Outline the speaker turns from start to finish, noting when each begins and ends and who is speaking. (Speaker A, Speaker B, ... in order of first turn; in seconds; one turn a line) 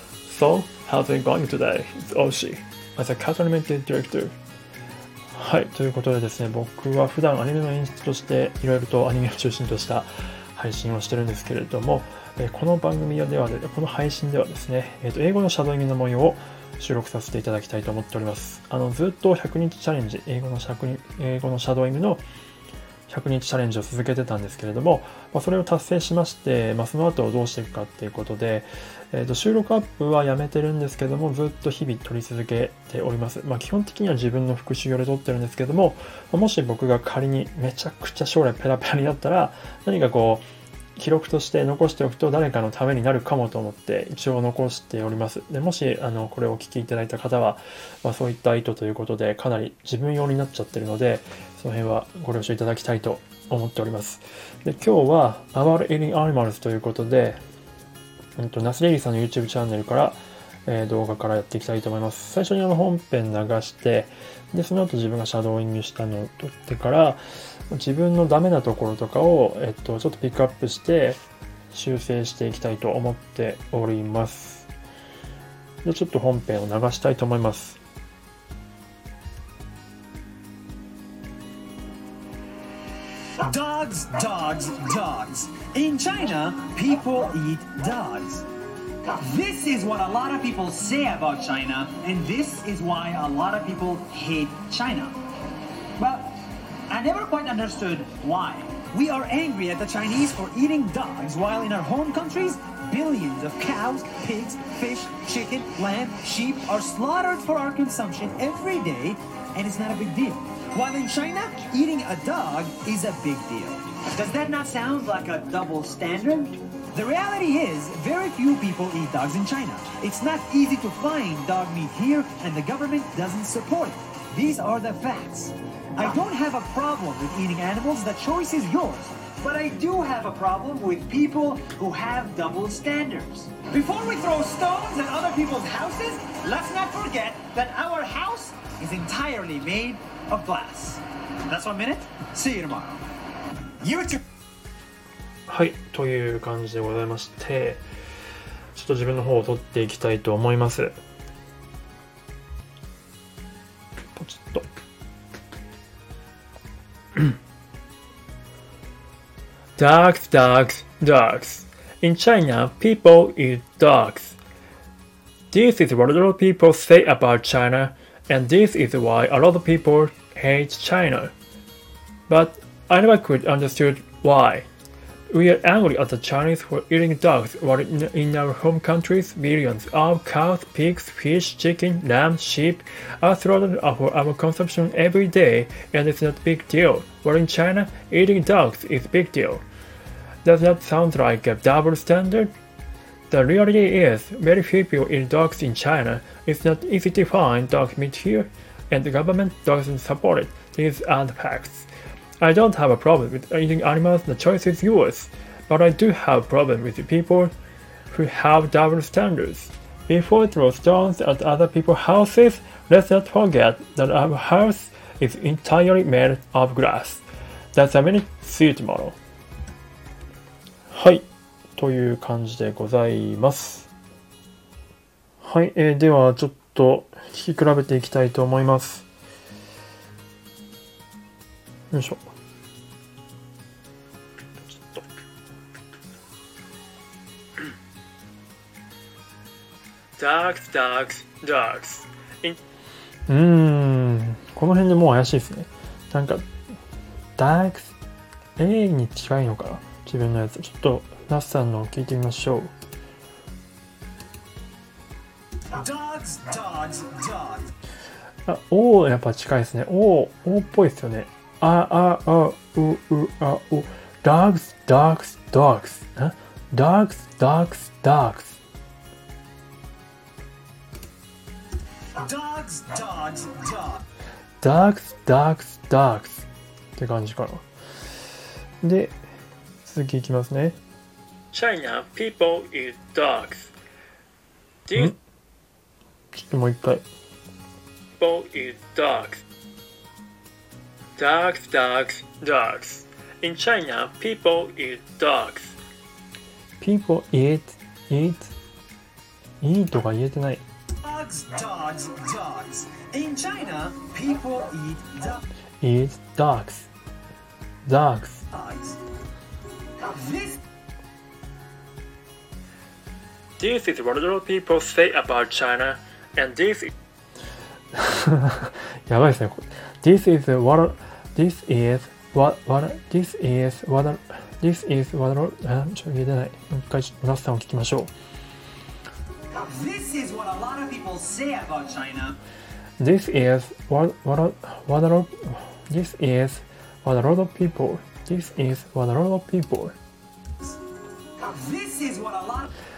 Speaker A: 0.3-4.4
Speaker A: 5.3-22.2
Speaker A: 23.1-40.5
Speaker A: 41.0-57.4
Speaker A: 58.4-71.2
Speaker A: 71.7-74.7
Speaker A: 75.8-77.8
Speaker B: 83.4-88.5
Speaker B: 89.1-95.2
Speaker B: 96.0-143.1
Speaker B: 143.8-144.2
Speaker A: 145.5-147.8
Speaker A: 148.7-151.0
Speaker A: 154.2-154.7
Speaker A: 159.8-164.4
Speaker A: 165.5-171.3
Speaker A: 172.3-174.7
Speaker A: 175.3-189.6
Speaker A: 190.4-192.5
Speaker A: 193.3-201.9
Speaker A: 202.4-207.5
Speaker A: 208.1-219.2
Speaker A: 220.9-223.9
Speaker A: 225.4-229.1
Speaker A: 231.9-232.2
Speaker A: 234.6-235.1
Speaker A: 240.2-242.6
Speaker A: 243.3-246.5
Speaker A: 247.4-248.0
Speaker A: 248.6-252.7
Speaker B: 255.7-257.7
Speaker A: 258.5-268.6
Speaker B: 272.1-274.1
Speaker A: 274.6-277.7
Speaker A: 278.8-279.2
Speaker A: 279.8-280.8
Speaker A: 281.5-283.7
Speaker A: 284.9-285.2
Speaker A: 286.3-287.1
Speaker A: 288.2-289.4
Speaker A: 291.2-295.8
Speaker A: 296.8-298.6
Speaker A: 299.6-300.6
Speaker B: 301.0-305.4
Speaker A: 305.8-306.9
Speaker A: 307.9-308.5
Speaker B: 308.5-309.0
Speaker B: 310.0-310.6
Speaker A: 313.6-316.9
Speaker A: 317.9-328.1
Speaker B: 329.5-332.4
Speaker A: 333.0-340.0
Speaker B: 341.4-342.7